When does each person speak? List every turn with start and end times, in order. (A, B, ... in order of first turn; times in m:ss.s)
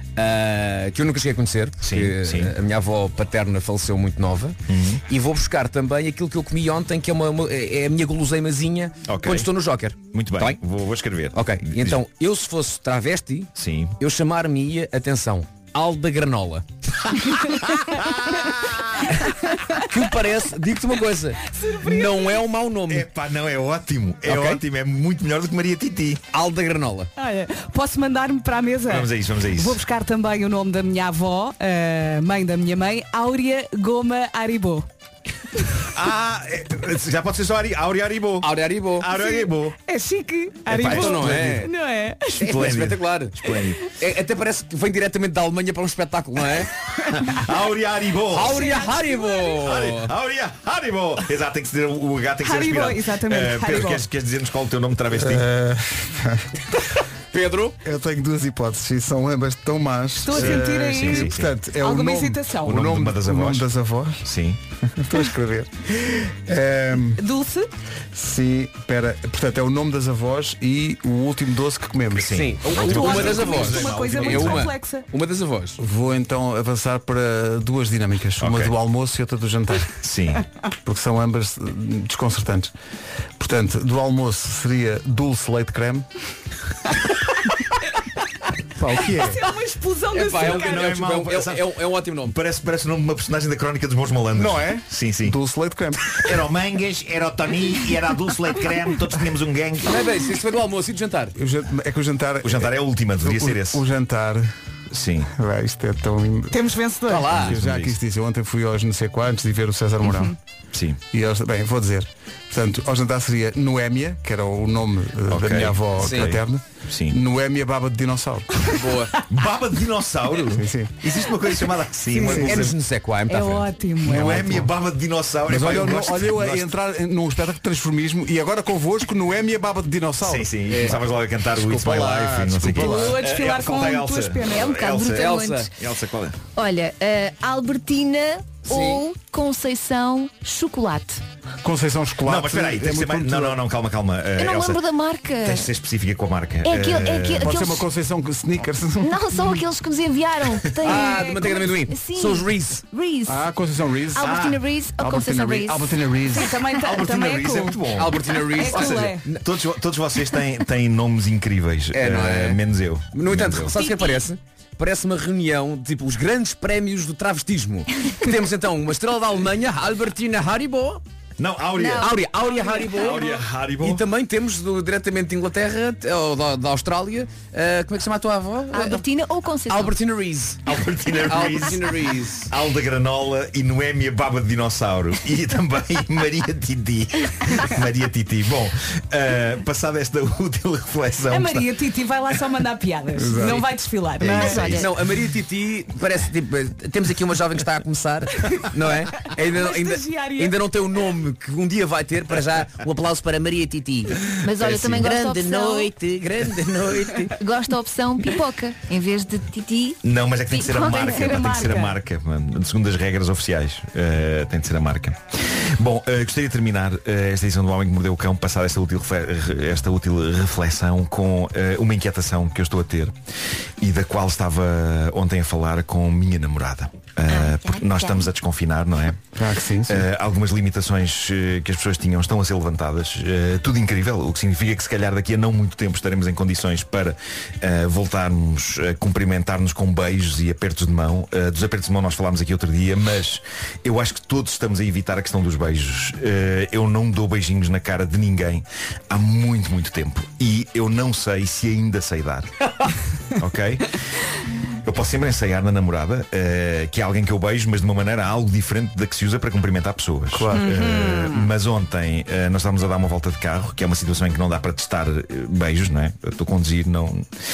0:00.2-0:10.6 A
0:01.8-0:02.5 B
0:04.7-0:05.0 B
0:09.0-0:09.5 B
0:10.0-0:12.0 B
0:11.3-0:16.6 A
0:13.6-0:14.0 B
0:19.8-0:23.1 A
0:21.5-0:22.3 C
0:22.9-0:26.2 B
0:24.2-0:24.6 A
0:26.3-0:27.1 A
0:27.2-0:34.9 C
0:28.9-0:29.8 B
0:35.9-0:39.8 B
0:38.4-0:39.1 A
0:39.1-0:42.4 C
0:40.7-0:41.6 B
0:40.8-0:41.7 A
0:42.3-0:43.8 B
0:42.4-0:43.4 A
0:43.5-0:43.7 C
0:43.9-0:46.7 A
0:47.4-0:48.8 B
0:48.3-0:50.1 A
0:48.5-0:49.6 C
0:49.5-0:55.5 B
0:52.4-0:54.0 C
0:55.1-0:56.5 D
0:57.3-0:57.8 A
0:57.8-1:04.2 D
1:00.3-1:02.8 C
1:00.3-1:01.5 B
1:02.6-1:03.7 B
1:04.2-1:04.6 B
1:04.8-1:07.2 D
1:07.2-1:07.7 C
1:08.1-1:12.4 D
1:12.1-1:14.7 B
1:12.3-1:15.8 A
1:12.7-1:15.0 C
1:15.8-1:19.9 D
1:18.4-1:18.7 B
1:20.0-1:20.4 B
1:20.8-1:22.7 D
1:23.4-1:26.1 D
1:28.8-1:29.4 D
1:29.1-1:30.9 C
1:30.1-1:32.3 A
1:30.3-1:35.4 B
1:34.4-1:36.1 D
1:36.1-1:40.1 B
1:39.8-1:41.3 A
1:41.4-1:44.5 D
1:42.4-1:43.8 B
1:44.9-1:45.3 B
1:45.3-1:46.6 D
1:46.5-1:47.4 C
1:47.1-1:47.6 A
1:47.3-1:50.3 D
1:47.3-1:48.0 B
1:50.0-1:50.3 C
1:50.7-1:51.0 B
1:51.1-1:58.7 D
1:55.3-1:57.2 B
1:56.0-1:56.4 A
1:58.7-1:59.1 A
1:59.3-2:02.8 B
2:00.5-2:00.9 D
2:02.1-2:02.5 C
2:02.3-2:03.7 A
2:03.3-2:04.6 C
2:04.0-2:06.8 B
2:05.5-2:10.9 D
2:10.2-2:16.4 B
2:10.7-2:11.0 A
2:11.6-2:13.2 D
2:12.7-2:14.8 C
2:14.6-2:15.7 E
2:15.1-2:15.7 A
2:16.5-2:21.2 E
2:18.6-2:19.0 A
2:21.6-2:23.6 D
2:22.2-2:24.8 B
2:24.3-2:25.7 E
2:25.4-2:27.6 B
2:26.6-2:27.8 E
2:27.4-2:29.5 D
2:29.0-2:33.4 E
2:30.8-2:32.8 A
2:31.0-2:31.6 C
2:33.2-2:36.5 D
2:34.1-2:36.0 E
2:34.2-2:34.6 B
2:36.3-2:37.8 C
2:36.7-2:43.7 B
2:37.9-2:39.6 A
2:38.5-2:39.2 C
2:41.9-2:42.6 A
2:43.1-2:51.0 A
2:43.7-2:44.2 C
2:51.4-2:52.2 B
2:51.7-2:53.1 E
2:52.0-2:59.0 A
2:52.8-2:54.0 B
2:58.7-3:00.0 E
2:59.7-3:00.6 A
3:00.6-3:11.7 B
3:01.2-3:02.5 A
3:11.3-3:14.8 C
3:13.2-3:13.6 D
3:14.2-3:14.9 E
3:14.2-3:14.6 B
3:14.7-3:27.4 A
3:19.2-3:20.6 C
3:24.4-3:25.9 E
3:24.6-3:25.1 B
3:27.4-3:31.8 E
3:30.0-3:43.1 B
3:31.1-3:32.0 C
3:43.8-3:49.2 B
3:47.3-3:48.3 E
3:49.3-3:50.0 D
3:49.9-4:12.5 B
4:13.4-4:13.9 B
4:14.8-4:27.3 B
4:20.3-4:20.6 D
4:20.5-4:21.5 C